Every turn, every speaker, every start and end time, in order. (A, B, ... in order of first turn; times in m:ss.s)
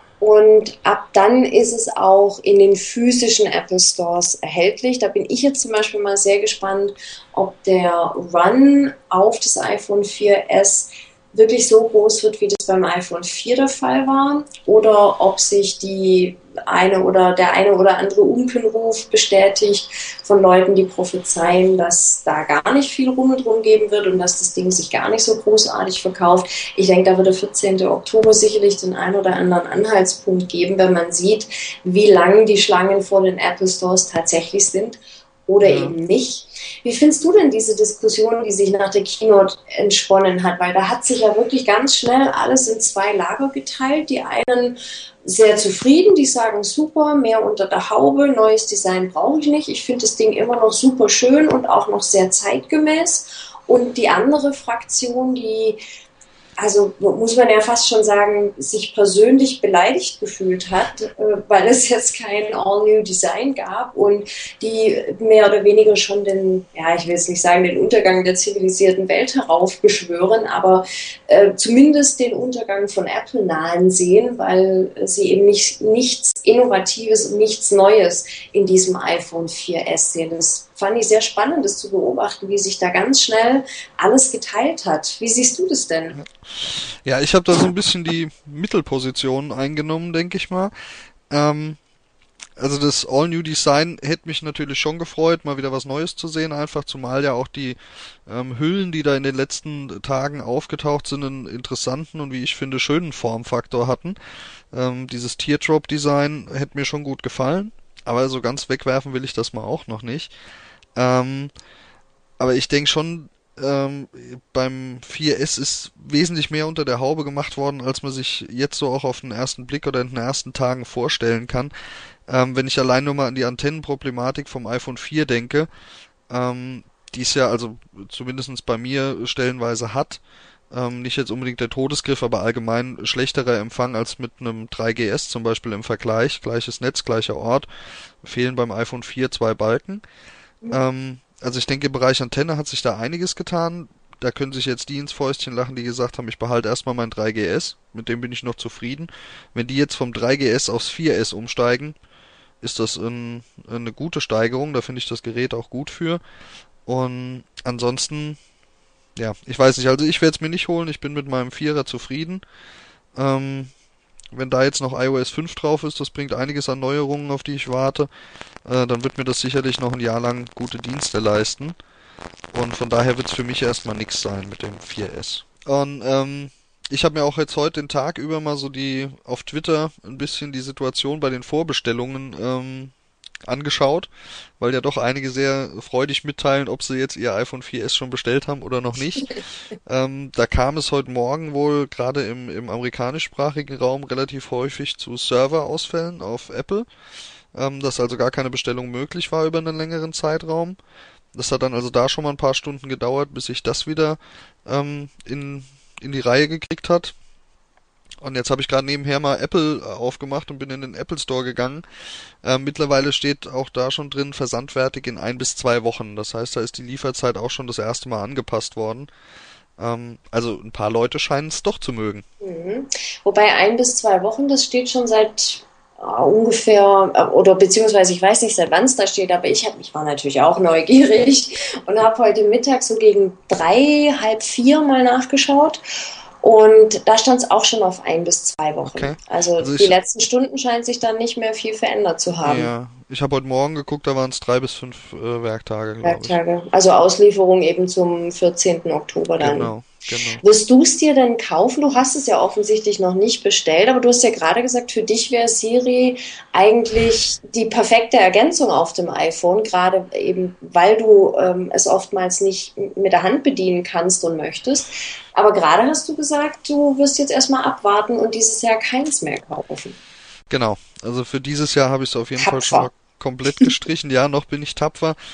0:00.2-0:55.8 A
0:35.6-0:36.0 B
0:56.6-1:26.2 A
1:26.2-1:30.7 B
1:31.3-1:31.8 B
1:32.6-1:44.2 B
1:44.7-1:50.3 B
1:51.0-1:51.5 B
1:52.4-2:01.7 B
2:02.3-2:05.7 B
2:06.3-2:17.6 B
2:18.2-2:20.0 B
2:20.7-2:32.0 B
2:32.6-2:36.2 B
2:36.8-2:38.4 B
2:39.2-2:42.4 B
2:43.1-2:43.7 B
2:44.3-2:48.1 B
2:48.6-2:51.8 B
2:52.5-3:02.9 B
3:03.5-3:16.8 B
3:17.5-3:20.8 B
3:21.3-3:27.1 B
3:28.2-3:31.8 B
3:32.4-3:39.1 B
3:39.8-3:42.2 B
3:42.4-3:55.8 A
3:56.4-4:02.7 A
3:58.9-3:59.9 B
4:02.4-4:06.4 B
4:06.0-4:09.7 A
4:09.4-4:10.4 B
4:10.4-4:30.0 A
4:30.5-4:35.2 B
4:32.4-4:32.9 A